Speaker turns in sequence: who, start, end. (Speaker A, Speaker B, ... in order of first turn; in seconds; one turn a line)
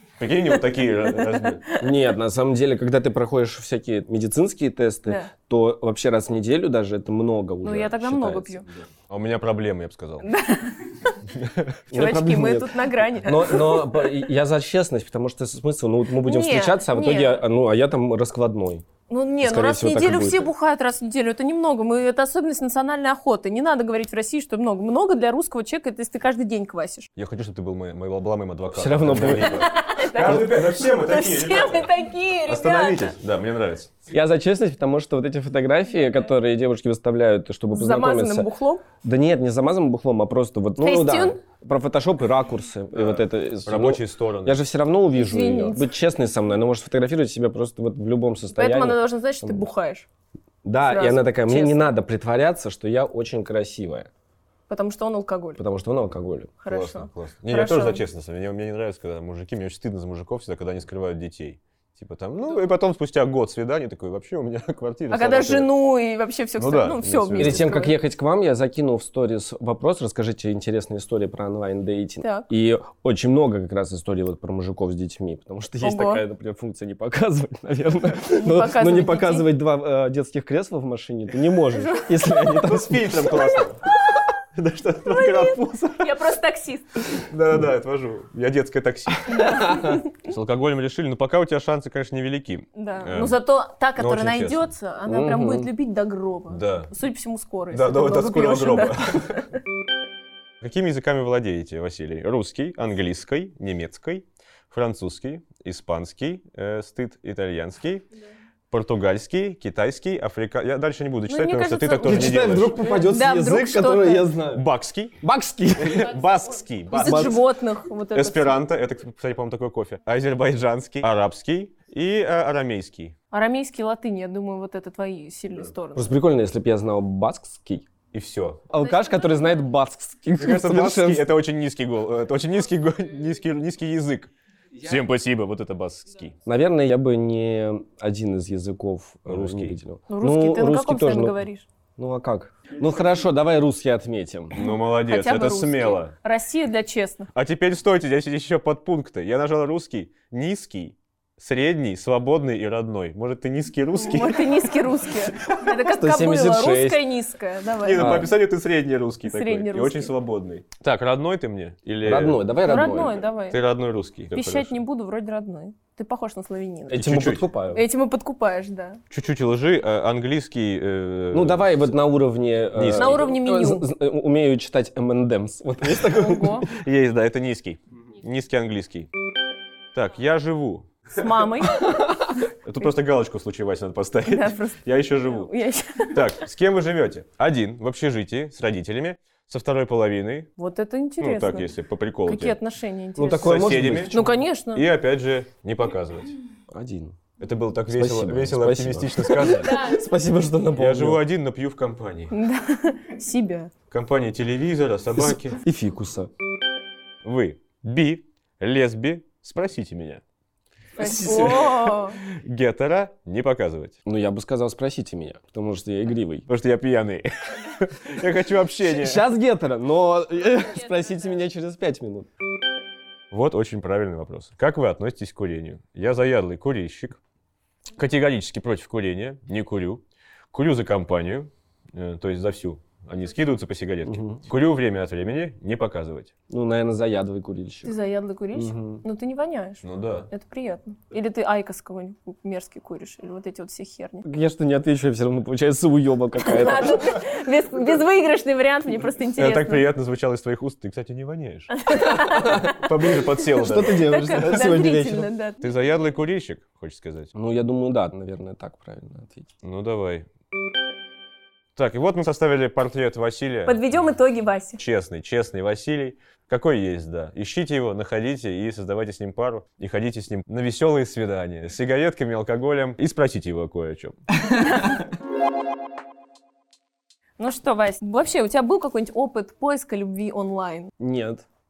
Speaker A: 0.2-1.6
Speaker B: 1.1-1.9
Speaker C: 1.8-8.6
Speaker B: 7.6-8.6
Speaker A: 9.1-10.3
Speaker B: 10.2-11.1
Speaker C: 11.9-18.8
Speaker B: 11.9-14.1
Speaker B: 16.2-17.4
Speaker B: 19.1-27.1
Speaker C: 19.4-20.5
Speaker A: 27.2-31.9
Speaker C: 28.7-29.6
Speaker B: 29.4-33.1
Speaker A: 32.4-34.0
Speaker C: 34.1-49.6
Speaker B: 37.7-38.8
Speaker B: 40.8-41.4
Speaker A: 42.9-44.6
Speaker B: 45.1-45.9
Speaker B: 48.5-50.0
Speaker C: 50.6-54.1
Speaker B: 50.9-51.9
Speaker B: 54.7-55.6
Speaker C: 55.6-56.5
Speaker B: 56.6-58.0
Speaker A: 56.7-65.7
Speaker B: 65.1-67.9
Speaker A: 66.6-67.7
Speaker C: 67.4-83.2
Speaker B: 75.8-76.2
Speaker B: 78.3-79.5
Speaker B: 81.7-82.6
Speaker A: 82.5-83.8
Speaker A: 84.5-86.1
Speaker B: 85.0-87.2
Speaker A: 87.2-89.7
Speaker B: 89.3-90.1
Speaker C: 89.4-90.0
Speaker A: 90.2-93.4
Speaker B: 92.8-99.5
Speaker A: 94.0-94.7
Speaker C: 95.1-95.7
Speaker A: 96.5-96.9
Speaker A: 97.7-99.4
Speaker A: 100.6-108.0
Speaker A: 108.7-112.9
Speaker B: 111.3-114.3
Speaker C: 112.0-114.6
Speaker A: 114.5-115.2
Speaker C: 115.2-116.2
Speaker A: 115.8-117.4
Speaker B: 116.9-118.6
Speaker C: 116.9-117.4
Speaker A: 118.1-123.1
Speaker B: 123.3-126.1
Speaker C: 125.9-127.8
Speaker A: 128.1-128.6
Speaker C: 128.7-131.3
Speaker B: 128.8-129.5
Speaker A: 130.4-134.3
Speaker A: 134.8-136.3
Speaker C: 136.4-141.4
Speaker A: 139.3-139.8
Speaker B: 140.1-141.7
Speaker C: 142.0-144.6
Speaker A: 144.5-146.1
Speaker B: 144.6-147.3
Speaker A: 147.3-154.7
Speaker B: 154.0-158.3
Speaker C: 155.7-157.0
Speaker A: 157.8-164.8
Speaker C: 157.9-158.3
Speaker B: 159.3-160.1
Speaker C: 162.0-163.2
Speaker B: 162.6-163.6
Speaker B: 164.3-167.1
Speaker C: 166.9-167.8
Speaker A: 166.9-167.4
Speaker B: 167.7-169.0
Speaker A: 169.1-171.9
Speaker C: 171.3-176.7
Speaker A: 172.7-173.3
Speaker B: 172.9-173.8
Speaker B: 176.1-176.7
Speaker A: 176.7-179.1
Speaker A: 179.9-180.9
Speaker B: 181.2-182.0
Speaker A: 182.6-185.5
Speaker B: 184.2-186.2
Speaker A: 186.1-190.5
Speaker B: 190.6-191.7
Speaker A: 191.2-192.6
Speaker B: 192.2-194.8
Speaker C: 193.2-194.4
Speaker A: 193.4-194.2
Speaker A: 194.7-196.3
Speaker C: 196.7-197.2
Speaker A: 197.4-199.8
Speaker C: 197.9-201.2
Speaker B: 199.6-199.9
Speaker A: 200.8-202.3
Speaker B: 202.3-203.7
Speaker A: 203.9-205.6
Speaker C: 205.2-206.3
Speaker A: 207.2-210.2
Speaker B: 211.0-212.2
Speaker C: 211.0-211.8
Speaker A: 211.2-214.0
Speaker C: 214.1-216.4
Speaker A: 216.5-219.2
Speaker C: 218.8-222.3
Speaker A: 223.3-227.2
Speaker A: 227.9-236.3
Speaker C: 234.1-234.4
Speaker C: 236.5-237.9
Speaker B: 237.8-244.2
Speaker C: 238.5-239.0
Speaker A: 239.8-240.3
Speaker C: 244.2-247.1
Speaker B: 246.4-249.8
Speaker A: 249.4-251.7
Speaker B: 251.8-252.8
Speaker C: 252.2-252.7
Speaker A: 252.4-254.6
Speaker C: 253.5-255.3
Speaker B: 253.8-255.6
Speaker A: 255.6-257.3
Speaker C: 257.3-259.5
Speaker A: 259.6-260.2
Speaker A: 261.8-263.8
Speaker B: 263.6-264.8
Speaker A: 264.8-274.1
Speaker B: 274.6-274.9
Speaker B: 277.4-280.9
Speaker C: 281.0-281.4